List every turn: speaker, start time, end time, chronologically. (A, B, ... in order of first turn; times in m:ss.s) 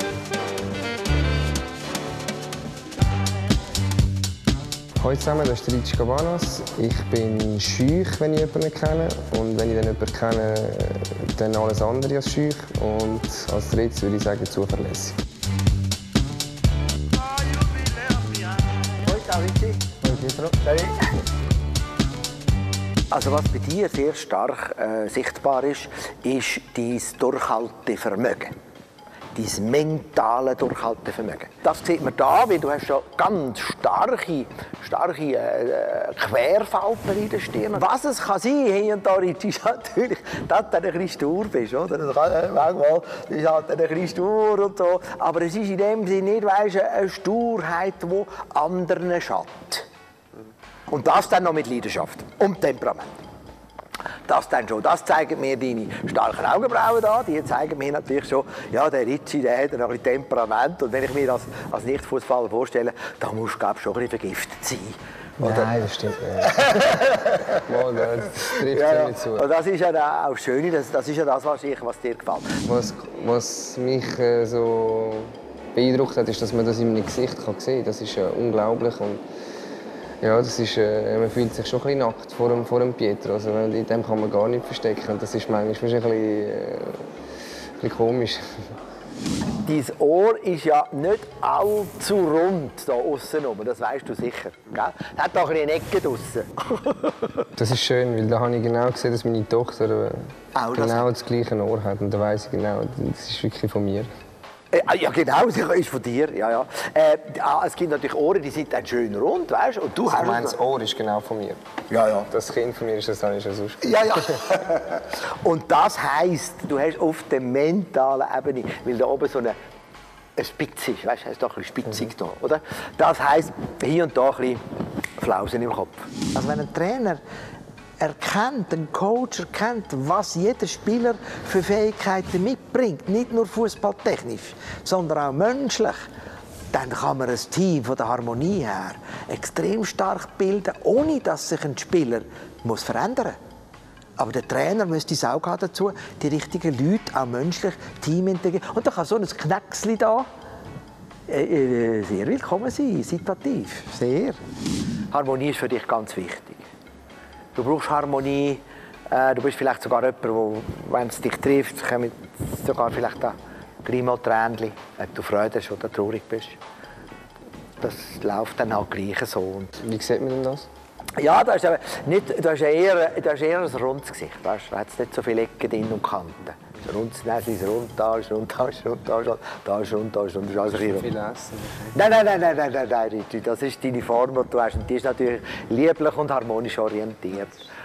0:05.0-0:15.2 A
0:18.2-0:19.9 B
0:20.0-0:20.6 A
0:20.6-0:21.0 B
0:23.1-0:28.5 B
0:29.3-0:49.9 B
0:50.9-0:53.2 B
0:54.3-1:05.7 B
1:05.4-1:06.6 A
1:06.4-1:07.6 B
1:07.7-1:09.4 A
1:08.4-1:12.6 B
1:12.6-1:19.2 A
1:20.2-1:27.1 A
1:27.8-1:28.4 A
1:29.6-1:37.3 B
1:37.6-1:40.2 A
1:40.5-1:41.1 B
1:40.7-1:44.1 A
1:44.7-1:50.6 B
1:50.0-1:51.6 A
1:51.9-1:52.3 B
1:52.3-1:54.5 A
1:53.8-1:59.6 B
2:00.4-2:04.6 B
2:05.2-2:07.2 B
2:08.0-2:16.1 B
2:16.7-2:23.4 B
2:24.2-2:30.3 B
2:31.3-2:34.4 B
2:35.1-2:36.6 B
2:37.5-2:46.6 B
2:47.8-2:49.8 B
2:49.8-2:50.7 A
2:51.2-3:01.1 B
3:00.9-3:02.0 A
3:01.9-3:07.7 B